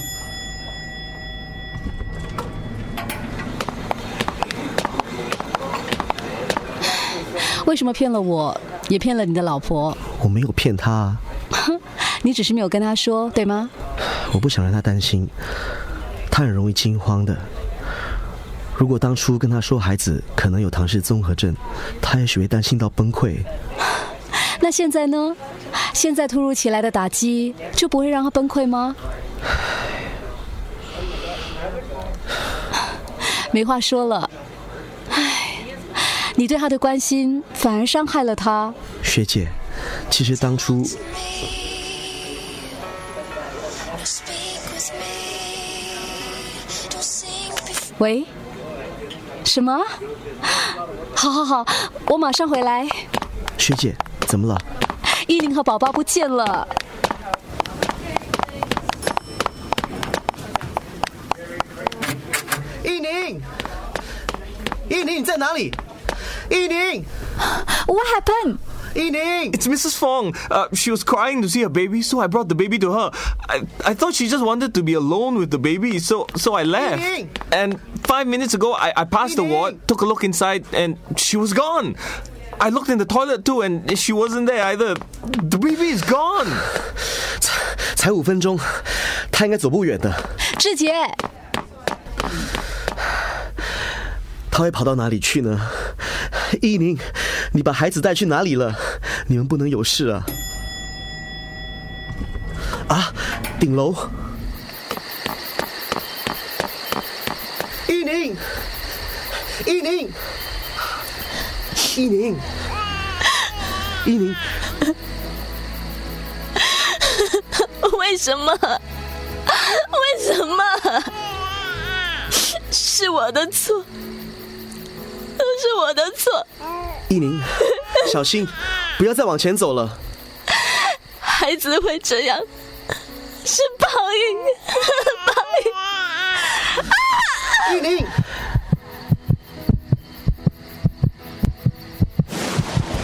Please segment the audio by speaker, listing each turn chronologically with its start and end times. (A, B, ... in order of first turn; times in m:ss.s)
0:07.6-0:10.0 A
0:10.2-0:11.2 B
0:11.7-0:13.7 A
0:14.3-0:15.3 B
0:16.3-0:17.5 B
0:18.8-0:23.5 B
0:24.6-0:25.4 A
0:25.9-0:29.0 A
0:33.5-0:34.3 A
0:35.1-0:35.6 A
0:36.4-0:38.8 A
0:39.0-0:39.5 B
0:40.1-0:41.0 B
0:48.0-0:48.3 A
0:49.4-0:49.9 A
0:51.2-0:53.0 A
0:53.6-0:54.6 B
0:55.2-0:56.7 A
1:02.9-1:03.4 B
1:04.9-1:05.7 B
1:06.5-1:07.0 B
1:07.7-1:08.6 A
1:09.0-1:09.4 B
1:09.5-1:22.0 C
1:22.6-1:26.6 C
1:27.4-1:30.3 B
1:30.6-1:31.2 A
1:34.5-1:40.3 B
1:42.9-1:44.1 B
1:47.9-1:48.4 B
1:49.7-1:50.1 B
1:52.0-1:52.4 B
1:54.0-1:54.4 B
1:56.9-1:58.8 D
1:59.5-2:01.1 D
2:02.7-2:03.9 D
2:05.4-2:06.4 D
2:07.1-2:10.0 B
2:11.2-2:12.5 D
2:13.4-2:15.7 D